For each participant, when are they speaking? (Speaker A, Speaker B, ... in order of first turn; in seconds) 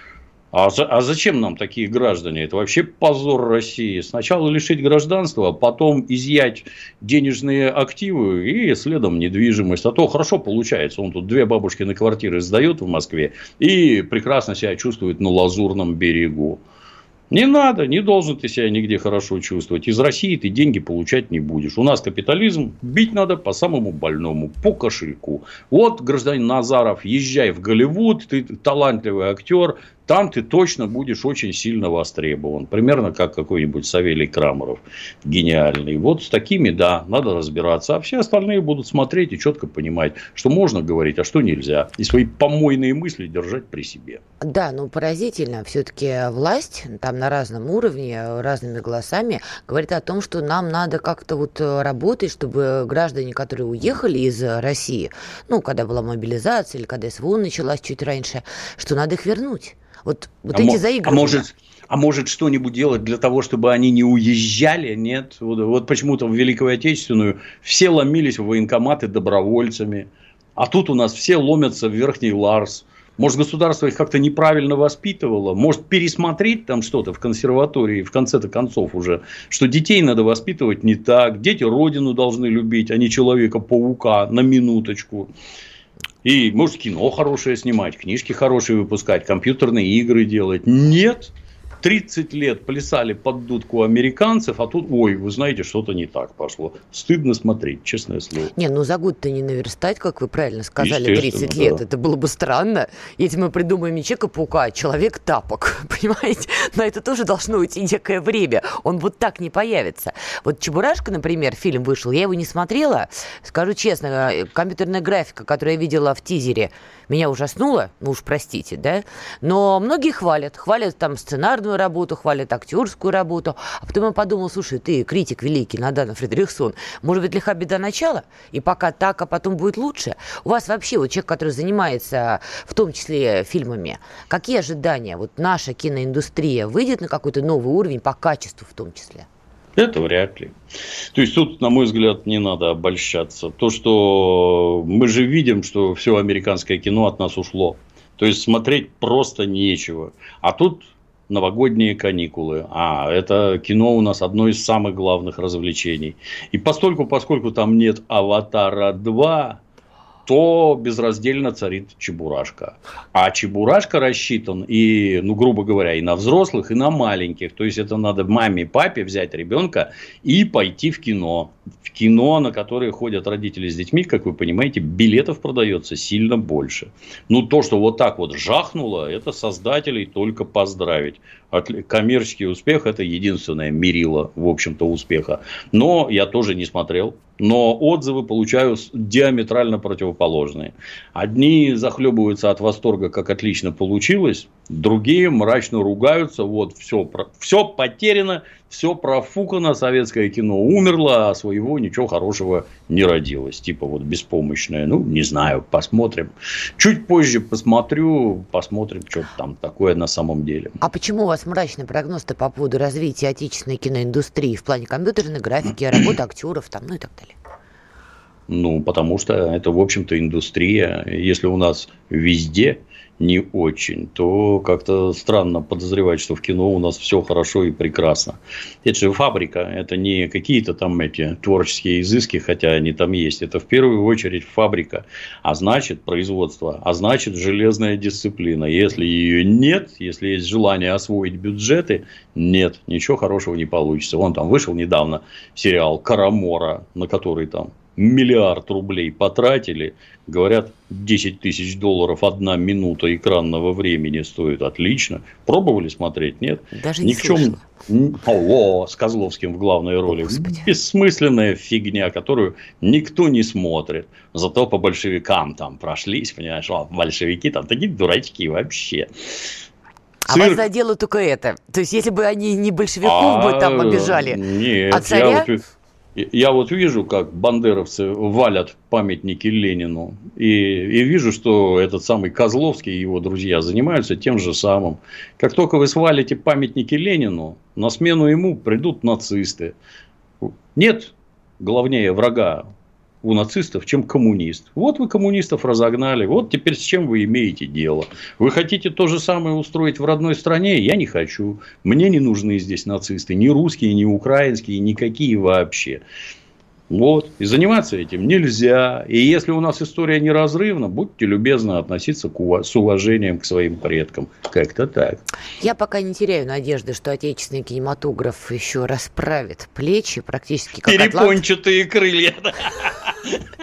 Speaker A: 0.5-16.6, 17.3-44.2, 60.5-85.3, 86.2-98.5, 100.8-101.8, 139.8-140.5, 141.1-159.6, 160.3-210.8, 218.5-269.1, 270.3-270.6, 273.0-275.6, 276.1-289.8, 290.4-292.7, 293.2-306.0, 306.9-315.3, 320.8-323.4
Speaker B: 44.4-61.5, 98.5-139.3, 210.8-217.3, 256.7-257.6, 260.1-260.7, 270.3-274.4, 274.9-275.5, 315.6-321.4